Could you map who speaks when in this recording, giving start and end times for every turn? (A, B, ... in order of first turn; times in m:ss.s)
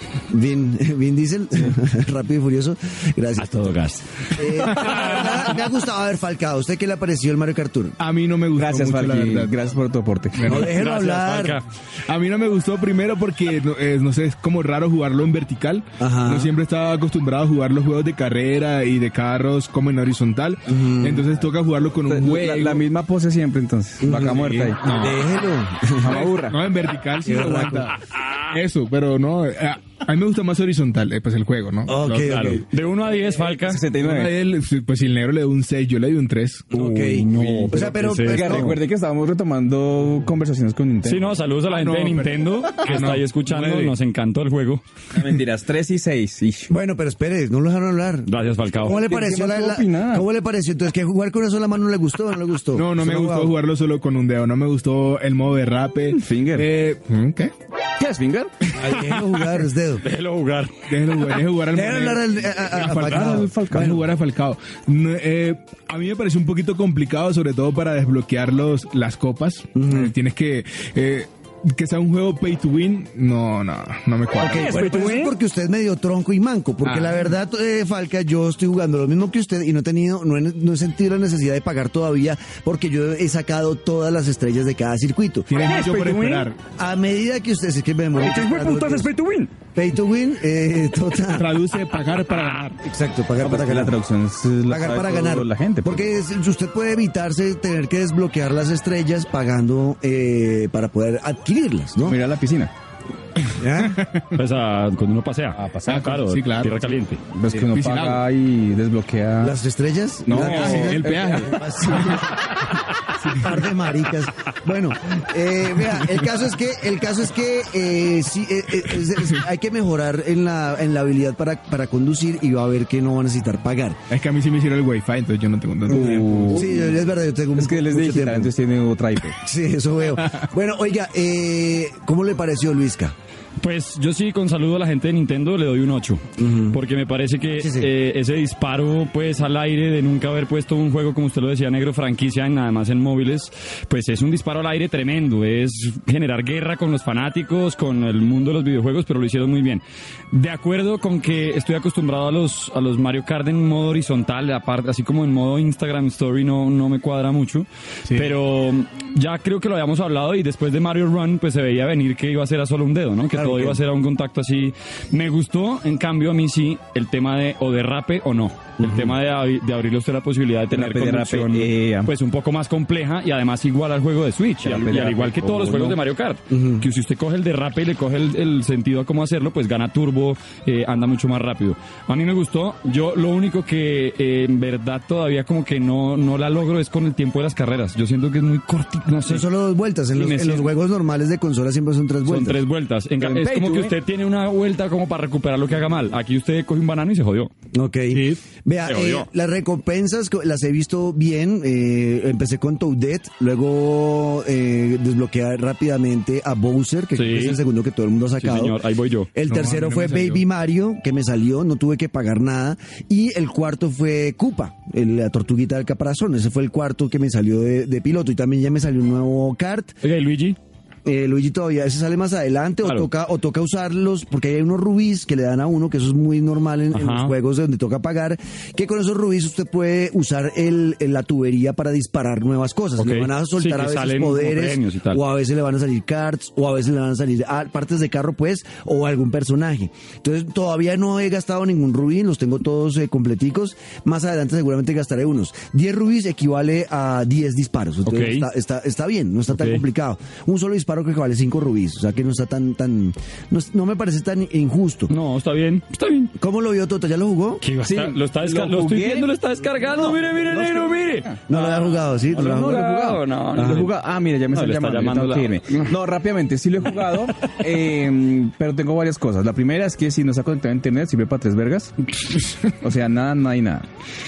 0:00.3-0:03.8 A
0:03.4-0:05.2 B
0:04.3-0:08.0 A
0:04.8-0:05.0 C
0:08.0-0:09.5 C
0:08.6-0:10.6 D
0:10.4-0:10.8 C
0:10.5-0:11.6 A
0:10.6-0:11.6 B
0:12.1-0:22.8 C
0:16.0-0:16.5 A
0:20.7-0:21.3 A
0:22.1-0:24.8 D
0:24.0-0:26.2 A
0:24.7-0:25.2 C
0:26.0-0:26.6 D
0:26.0-0:32.6 C
0:27.2-0:27.9 A
0:31.9-0:32.6 A
0:32.2-0:33.8 B
0:33.6-0:34.4 D
0:34.0-0:36.7 C
0:36.7-0:38.8 A
0:36.8-0:38.8 B
0:37.2-0:41.2 D
0:41.0-0:44.8 B
0:41.7-0:43.9 C
0:45.1-0:46.7 D
0:46.7-0:53.6 A
0:48.3-0:49.0 B
0:48.9-0:50.3 D
0:52.8-0:57.5 C
0:56.1-0:56.7 D
0:58.0-0:58.6 D
0:58.8-1:00.1 A
1:00.0-1:00.8 B
1:00.9-1:14.9 C
1:01.7-1:04.1 A
1:03.0-1:04.0 D
1:09.8-1:10.1 A
1:14.4-1:25.5 A
1:14.5-1:15.3 D
1:16.8-1:17.2 C
1:25.5-1:26.6 C
1:25.6-1:26.5 B
1:26.7-1:29.1 A
1:28.2-1:29.5 B
1:29.8-1:31.5 A
1:31.3-1:32.8 C
1:32.3-1:32.6 B
1:32.8-1:34.0 A
1:33.4-1:36.1 D
1:34.7-1:42.2 A
1:42.0-1:42.7 D
1:43.4-1:44.3 C
1:43.6-1:44.0 A
1:44.4-1:47.2 B
1:45.6-1:46.1 D
1:45.9-1:46.8 C
1:47.3-1:49.6 D
1:47.5-1:48.2 C
1:49.4-1:52.4 A
1:50.3-1:51.6 D
1:50.4-1:52.2 C
1:53.2-1:53.6 C
1:53.3-2:04.0 A
2:04.1-2:06.8 C
2:05.9-2:07.0 D
2:05.9-2:08.5 A
2:07.6-2:09.4 D
2:09.4-2:13.2 A
2:13.6-3:09.4 B
2:16.4-2:16.8 A
2:17.6-2:17.9 A
2:43.3-2:43.8 A
2:48.8-2:49.1 A
2:50.7-2:52.1 D
2:54.6-2:56.0 D
2:56.5-2:56.8 A
3:09.3-3:12.6 A
3:10.2-3:10.7 B
3:12.2-3:17.5 B
3:13.2-3:14.0 D
3:17.7-3:28.8 A
3:18.9-3:19.3 B
3:27.2-3:27.6 B
3:28.4-3:29.3 B
3:29.4-3:40.0 A
3:29.5-3:30.4 C
3:40.0-3:40.6 B
3:41.0-4:15.1 A
3:46.9-3:47.3 B
3:53.0-3:55.2 B
4:08.1-4:08.5 B
4:09.5-4:09.8 B
4:15.1-4:16.3 B
4:16.4-4:17.6 A
4:17.6-4:23.9 B
4:17.8-4:19.3 D
4:20.0-4:21.4 D
4:21.5-4:22.8 A
4:22.3-4:32.0 D
4:24.5-4:25.9 B
4:32.7-4:33.9 D